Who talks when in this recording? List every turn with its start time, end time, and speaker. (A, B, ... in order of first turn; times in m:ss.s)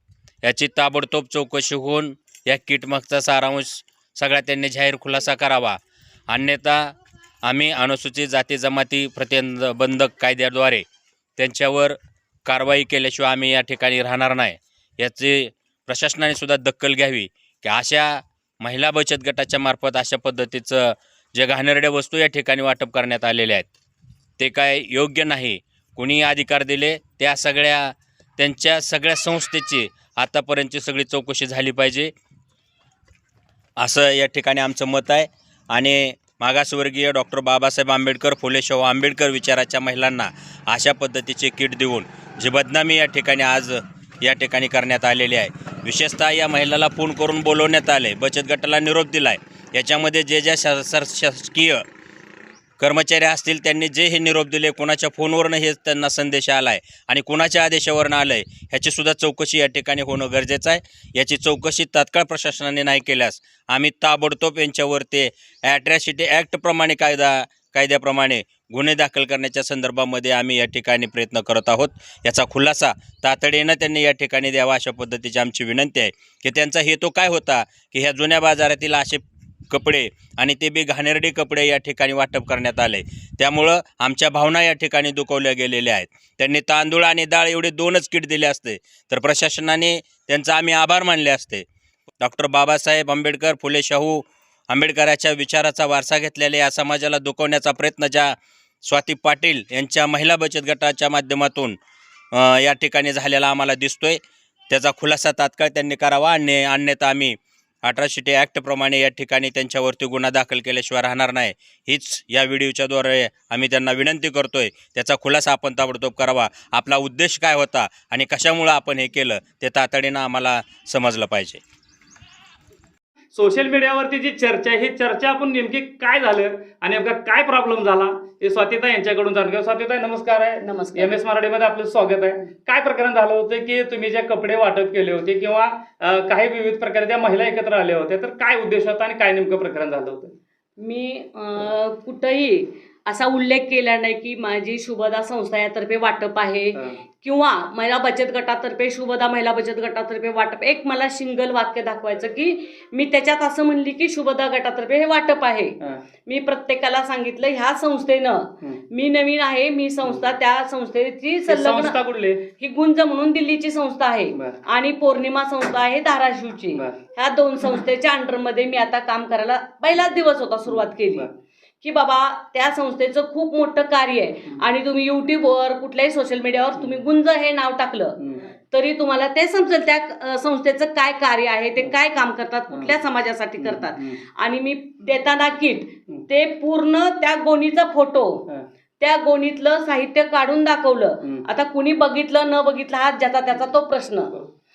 0:00.4-0:10.8 A
0:11.4-0:23.7 A
0:24.4-0:32.1 A
0:33.8-0:51.8 A
0:52.8-1:31.6 A
1:32.2-1:38.4 A
1:38.9-1:41.8 A
1:42.3-2:01.6 A
2:03.3-2:20.3 B
2:10.6-2:11.1 C
2:20.8-2:42.0 C
2:41.5-2:42.4 B
2:42.5-2:51.3 C
2:44.3-2:44.6 B
2:50.7-2:51.3 B
2:51.8-2:58.2 C
2:56.8-2:57.0 B
2:58.2-2:58.4 B
2:58.7-3:08.4 C
3:02.7-3:03.0 B
3:03.6-3:04.2 B
3:09.0-3:14.3 C